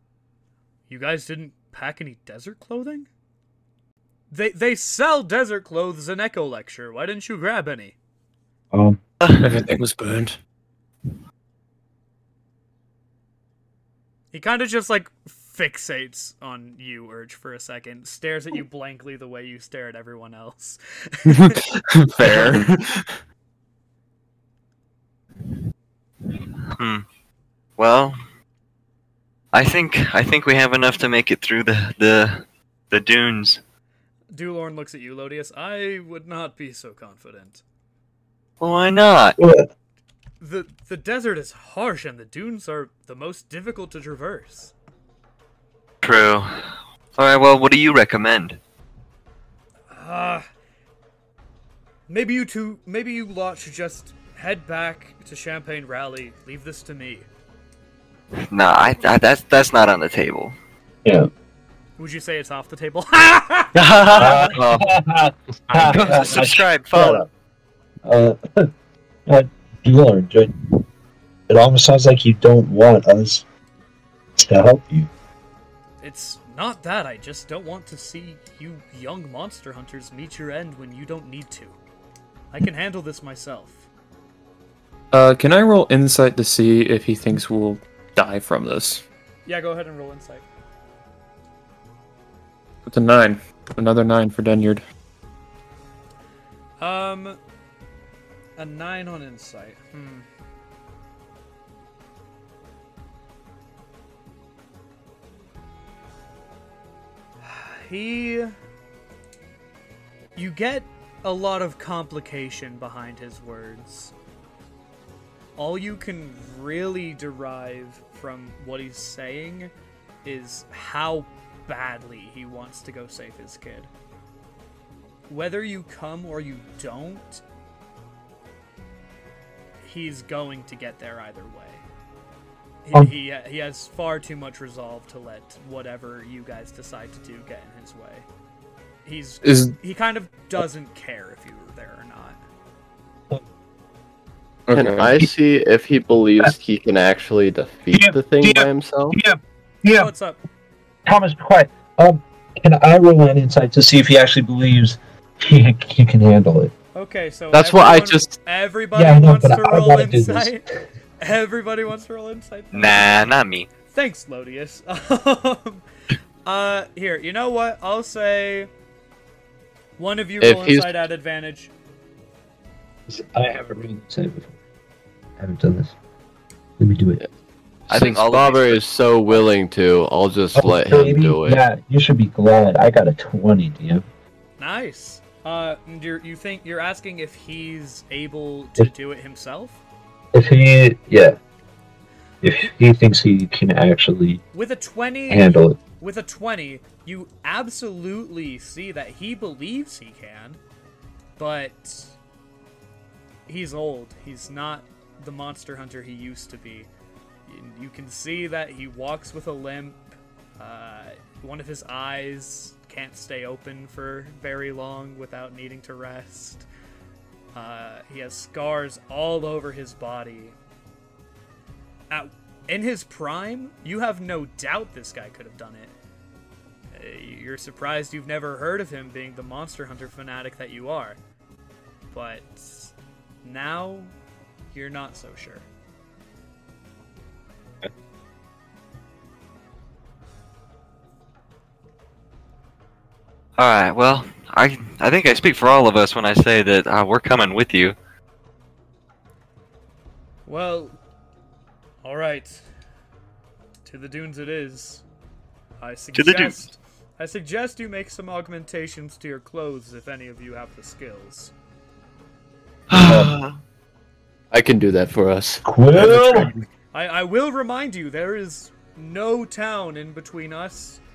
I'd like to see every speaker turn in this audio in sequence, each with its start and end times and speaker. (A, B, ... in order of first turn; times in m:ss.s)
0:00.9-0:03.1 A
0:04.3-0:07.9 A
0:08.7-0:09.0 B
0:09.2-0:09.5 C
0:09.4-0:10.4 D
0:14.3-0:21.6 A
0:21.3-0:23.1 D
0:22.2-0:22.6 B
0:26.7-0:27.0 C
0:27.8-0:28.2 C
0:29.5-0:33.6 C
0:34.3-0:37.6 A
0:38.6-0:39.4 C
0:39.4-0:39.7 B
0:40.4-0:44.7 A
0:46.0-0:46.5 C
0:47.2-0:48.6 C
0:49.9-0:50.5 A
0:52.1-0:57.3 A
0:58.5-1:00.5 C
1:01.0-1:01.3 B
1:02.0-1:04.4 A
1:03.7-1:04.6 C
1:04.1-1:07.3 B
1:04.6-1:04.8 E
1:05.7-1:07.2 C
1:08.0-1:08.7 B
1:09.3-1:10.6 B
1:11.5-1:13.4 B
1:14.4-1:15.1 B
1:16.0-1:21.8 A
1:22.5-1:23.8 A
1:25.1-1:29.0 D
1:29.4-1:30.4 A
1:32.8-1:34.8 D
1:36.8-1:37.4 A
1:38.6-1:40.2 A
1:47.4-1:48.6 A
1:50.4-1:54.1 A
1:55.6-1:59.7 A
2:00.2-2:03.9 A
2:05.3-2:07.4 A
2:09.8-2:11.8 A
2:12.8-2:18.2 A
2:19.0-2:22.4 A
2:19.4-2:19.7 D
2:24.7-2:25.2 D
2:24.7-2:29.2 E
2:27.9-2:30.1 B
2:29.9-2:30.4 A
2:31.0-2:36.7 B
2:36.9-2:40.6 A
2:37.5-2:38.4 E
2:38.9-2:40.6 B
2:41.2-2:43.2 A
2:42.7-2:43.7 C
2:43.9-2:45.8 A
2:46.4-2:48.7 A
2:50.0-2:51.7 A
2:50.4-2:51.0 E
2:53.1-2:54.5 B
2:55.4-2:55.9 B
2:56.8-2:57.2 B
2:57.9-2:59.4 C
2:57.9-3:01.6 E
3:00.6-3:04.0 B
3:04.6-3:09.8 A
3:10.3-3:11.4 B
3:12.4-3:14.4 B
3:14.5-3:20.6 A
3:15.3-3:15.8 B
3:21.4-3:22.1 A
3:23.5-3:26.9 A
3:27.4-3:30.0 A
3:30.6-3:36.7 A
3:37.5-3:40.6 A
3:42.1-3:45.9 A
3:46.9-3:51.2 A
3:52.1-3:54.1 A
3:54.7-3:55.6 A
4:03.6-4:07.9 C
4:10.4-4:11.0 A
4:12.0-4:12.6 A
4:13.8-4:15.0 A
4:15.8-4:21.5 A
4:16.1-4:16.6 C
4:22.9-4:23.5 C
4:23.0-4:23.4 B
4:24.5-4:26.4 E
4:25.6-4:26.5 B
4:26.0-4:26.4 D
4:26.9-4:31.0 A